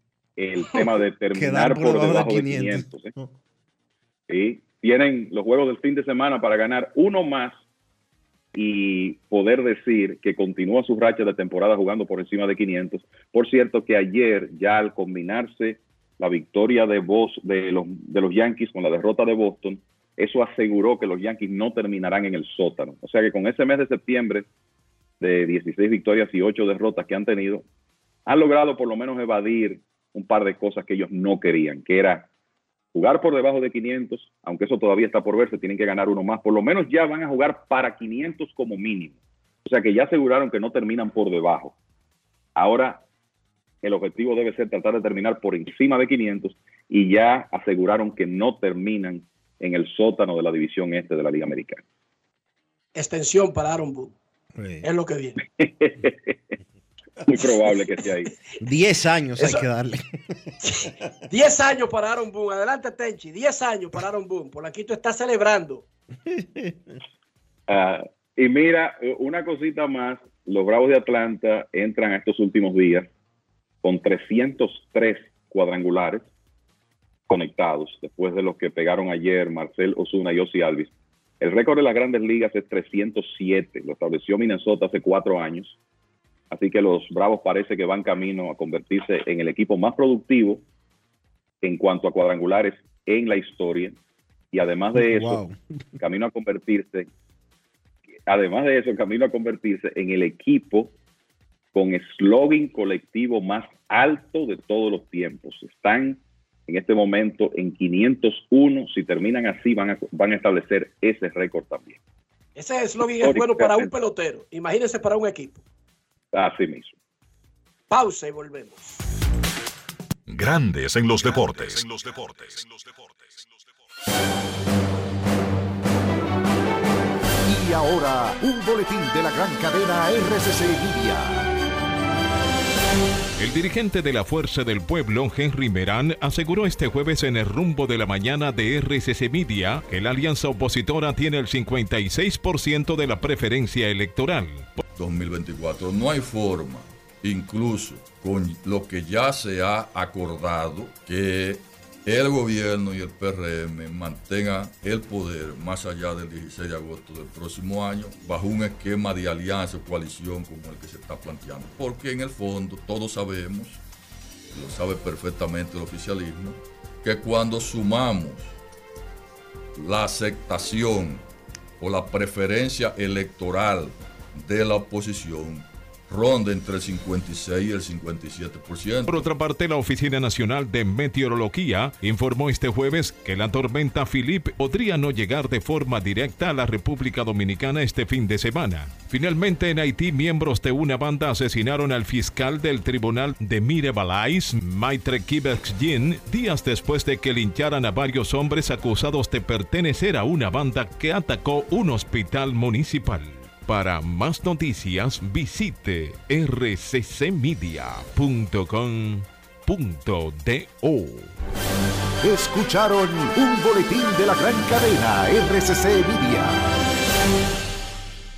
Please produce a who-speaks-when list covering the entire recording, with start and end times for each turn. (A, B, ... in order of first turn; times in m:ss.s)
0:00.4-0:03.1 A
0:00.8-0:03.3 B
0:04.3-0:07.5 A
0:08.5-0:24.5 A
0:25.2-0:27.6 A
0:28.3-0:32.3 A
0:32.9-0:41.8 A
0:42.6-0:43.0 A
0:43.8-0:51.8 A
0:53.0-0:54.1 C
0:54.6-0:54.8 B
0:54.8-0:55.4 C
0:55.6-0:56.4 A
0:57.3-0:58.3 A
0:58.6-1:00.4 B
0:59.4-0:59.6 C
1:00.6-1:05.8 C
1:06.2-1:07.0 B
1:07.7-1:13.1 A
1:13.8-1:16.3 A
1:17.3-1:25.8 A
1:26.5-1:30.6 A
1:31.6-1:34.0 A
1:34.5-1:35.4 A
1:35.0-1:35.6 B
1:36.0-1:37.1 A
1:38.3-1:40.9 A
1:41.7-1:52.0 A
1:52.6-1:55.6 C
1:53.2-1:53.9 A
1:56.3-1:56.9 A
1:57.9-1:59.0 C
2:00.3-2:03.4 D
2:07.5-2:11.5 E
2:13.4-2:24.8 F
2:25.0-2:43.8 G
2:44.5-2:48.6 G
2:49.8-2:51.2 G
2:51.8-2:59.1 G
2:59.1-3:31.3 F
3:32.2-3:36.6 E